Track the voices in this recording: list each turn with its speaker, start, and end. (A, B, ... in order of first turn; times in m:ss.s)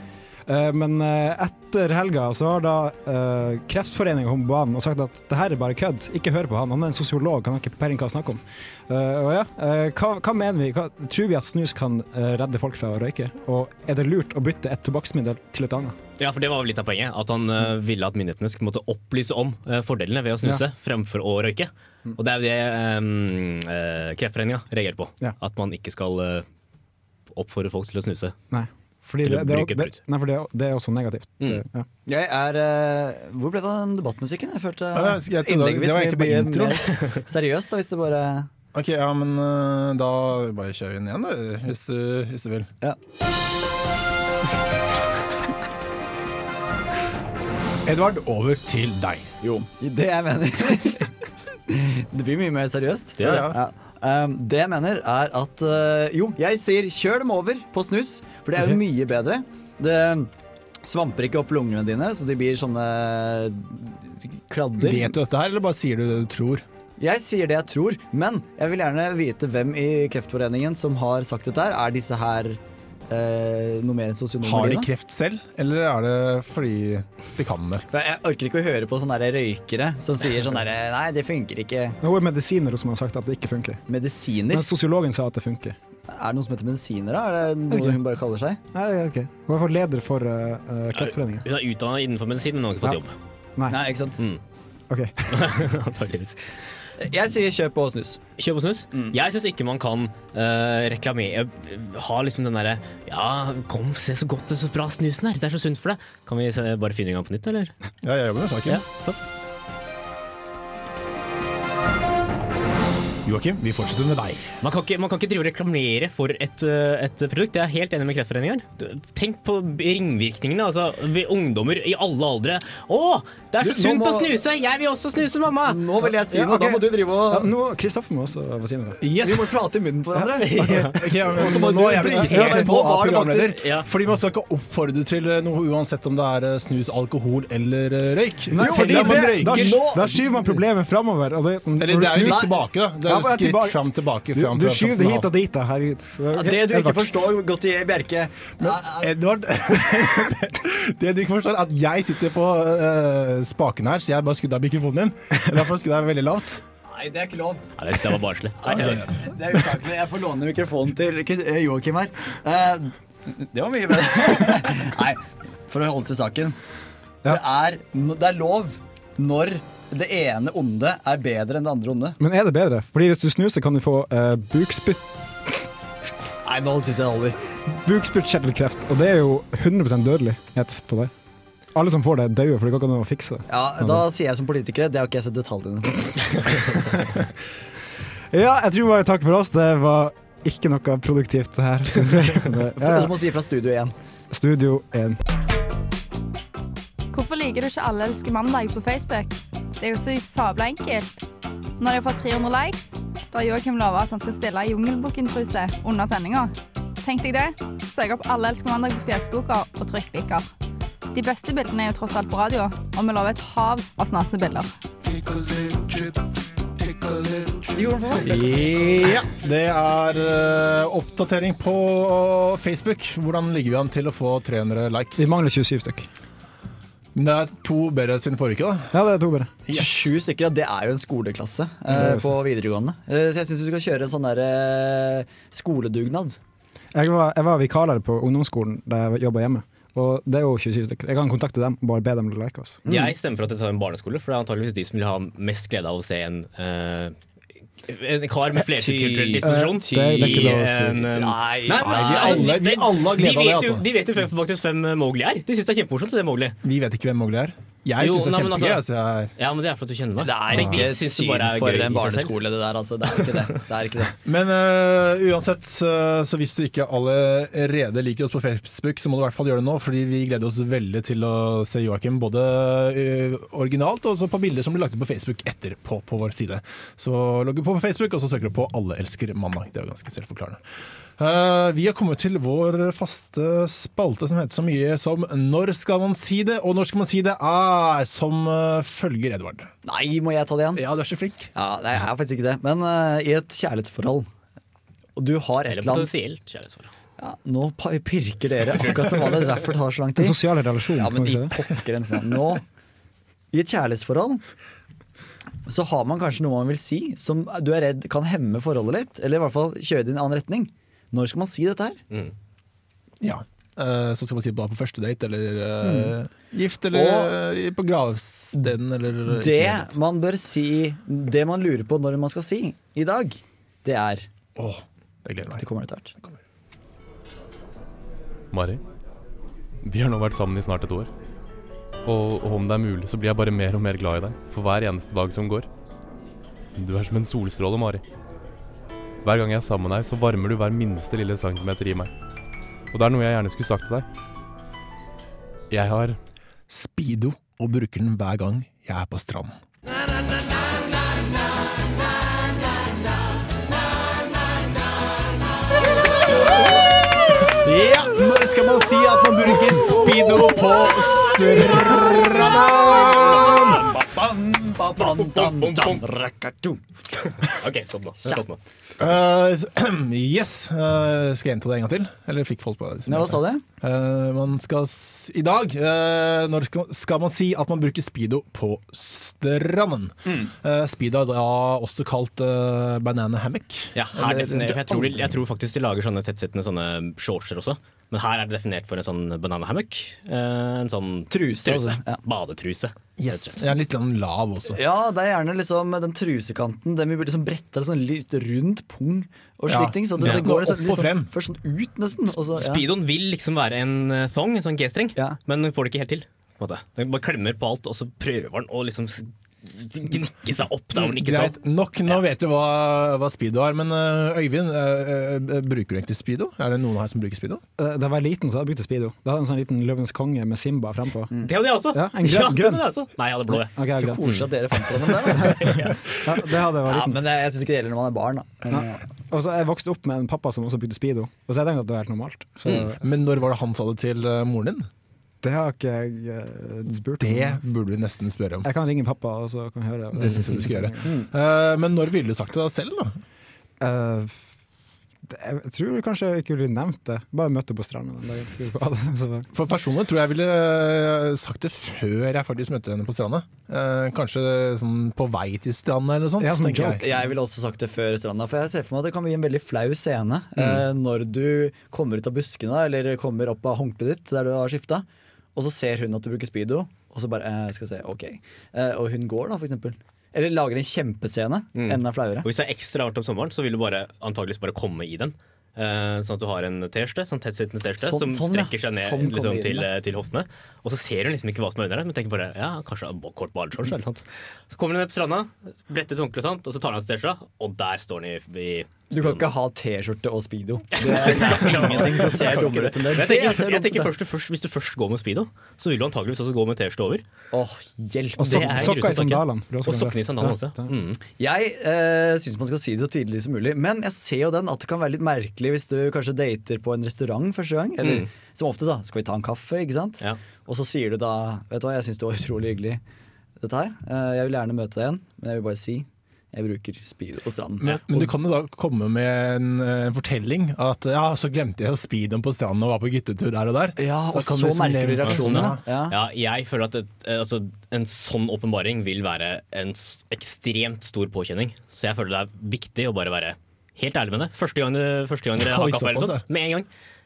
0:00.4-0:16.0 A
0:16.2-0:26.4 B
0:27.3-0:28.4 B
0:28.5-0:31.9 A
0:29.2-0:29.9 B
0:32.1-0:38.5 C
0:34.9-0:37.1 D
0:38.7-0:42.7 D
0:47.9-0:49.3 D
0:49.4-0:51.1 C
0:51.7-1:00.3 C
0:53.2-0:53.5 B
0:53.2-0:53.6 D
1:00.8-1:05.1 C
1:04.8-1:06.6 D
1:07.0-1:14.9 C
1:14.4-1:17.9 D
1:17.9-1:22.0 C
1:22.0-1:23.8 A
1:23.9-1:24.7 C
1:24.5-1:25.8 A
1:26.1-1:28.6 C
1:27.7-1:28.0 A
1:28.7-1:31.4 A
1:30.9-1:33.1 B
1:33.7-1:34.2 C
1:34.9-1:35.6 A
1:35.3-1:36.6 B
1:37.0-1:38.2 C
1:38.4-1:47.7 B
1:48.0-1:48.8 D
1:48.6-1:49.2 B
1:53.2-1:54.5 D
1:54.6-2:05.8 B
2:03.6-2:04.4 C
2:05.6-2:07.5 C
2:06.3-2:09.0 A
2:09.0-2:09.5 D
2:09.2-2:13.9 C
2:10.1-2:11.0 A
2:10.6-2:10.9 B
2:10.7-2:19.8 D
2:11.9-2:12.8 A
2:18.5-2:27.2 A
2:18.5-2:20.6 C
2:21.8-2:25.3 D
2:22.1-2:22.5 C
2:26.3-2:29.1 C
2:28.6-2:36.6 D
2:36.9-2:37.6 C
2:37.8-2:39.1 B
2:38.6-2:46.6 C
2:38.7-2:39.1 D
2:47.2-2:52.2 C
2:52.2-2:55.6 A
2:56.4-2:57.4 C
2:57.7-3:01.1 A
3:01.7-3:04.0 A
3:03.5-3:06.6 C
3:08.3-3:13.1 A
3:12.8-3:13.9 C
3:14.3-3:15.2 A
3:17.1-3:21.2 E
3:21.8-3:30.5 E
3:31.1-3:34.7 E
3:37.7-3:38.4 C
3:38.2-3:45.4 D
3:45.2-3:46.1 A
3:47.1-3:48.9 D
3:48.9-3:49.5 A
3:49.7-3:50.1 D
3:49.7-3:56.4 C
3:51.9-3:52.3 A
3:56.9-4:02.8 A
4:02.9-4:03.1 C
4:02.9-4:07.2 B
4:07.8-4:16.6 B
4:08.8-4:10.5 C
4:09.4-4:11.0 A
4:11.1-4:12.5 C
4:11.7-4:13.8 D
4:16.6-4:19.3 D
4:18.0-4:18.8 B
4:19.4-4:22.4 B
4:20.2-4:24.1 C
4:20.5-4:20.9 D
4:24.2-4:40.6 D
4:41.2-4:49.7 D
4:49.8-4:50.8 C
4:50.8-4:51.5 D
4:51.5-4:54.3 C
4:55.2-4:56.1 C
4:55.7-4:56.9 B
4:57.2-5:00.4 C
5:00.2-5:01.5 A
5:00.9-5:02.6 C
5:03.5-5:04.4 C
5:05.6-5:12.0 C
5:13.2-5:19.9 D
5:15.8-5:16.1 C
5:16.9-5:17.3 C
5:19.3-5:24.3 C
5:24.6-5:25.6 D
5:25.6-5:26.1 C
5:28.5-5:28.8 F
5:29.8-5:31.1 F
5:32.0-5:35.7 F
5:36.8-5:38.0 F
5:39.2-5:42.1 F
5:42.9-5:44.0 F
5:45.7-5:46.2 F
5:46.7-5:49.6 D
5:57.5-6:03.9 D
6:03.2-6:04.1 B
6:04.0-6:06.8 C
6:05.0-6:06.2 B
6:07.1-6:08.6 B
6:09.0-6:24.6 D
6:13.0-6:13.6 C
6:20.2-6:20.5 C
6:23.9-6:33.6 B
6:24.2-6:25.1 C
6:31.3-6:32.2 C
6:33.2-6:34.8 D
6:34.7-6:42.8 C
6:39.7-6:41.3 D
6:42.6-6:52.2 B
6:51.0-6:57.6 D
6:57.8-7:02.9 A
7:01.4-7:06.0 B
7:03.5-7:04.3 A
7:04.0-7:05.7 C
7:05.4-7:07.2 A
7:06.9-7:09.0 C
7:08.7-7:13.0 A
7:12.7-7:14.9 D
7:15.4-7:17.6 A
7:17.2-7:18.7 D
7:18.6-7:21.1 A
7:20.1-7:23.2 D
7:21.0-7:21.3 C
7:23.8-7:24.5 A
7:25.2-7:29.5 A
7:29.5-7:37.0 D
7:36.4-7:37.0 A
7:37.0-7:45.0 C
7:45.6-7:52.5 C
7:51.8-8:09.5 B
7:58.0-7:59.9 C
8:09.1-8:14.1 C
8:11.0-8:17.2 B
8:11.4-8:12.2 D
8:17.5-8:19.0 C
8:18.4-8:20.9 A
8:18.4-8:21.2 B
8:21.4-8:33.0 C
8:28.0-8:28.3 B
8:33.6-8:38.3 C
8:37.8-8:45.8 D
8:44.0-8:46.1 C
8:45.2-8:56.9 B
8:55.6-8:56.4 D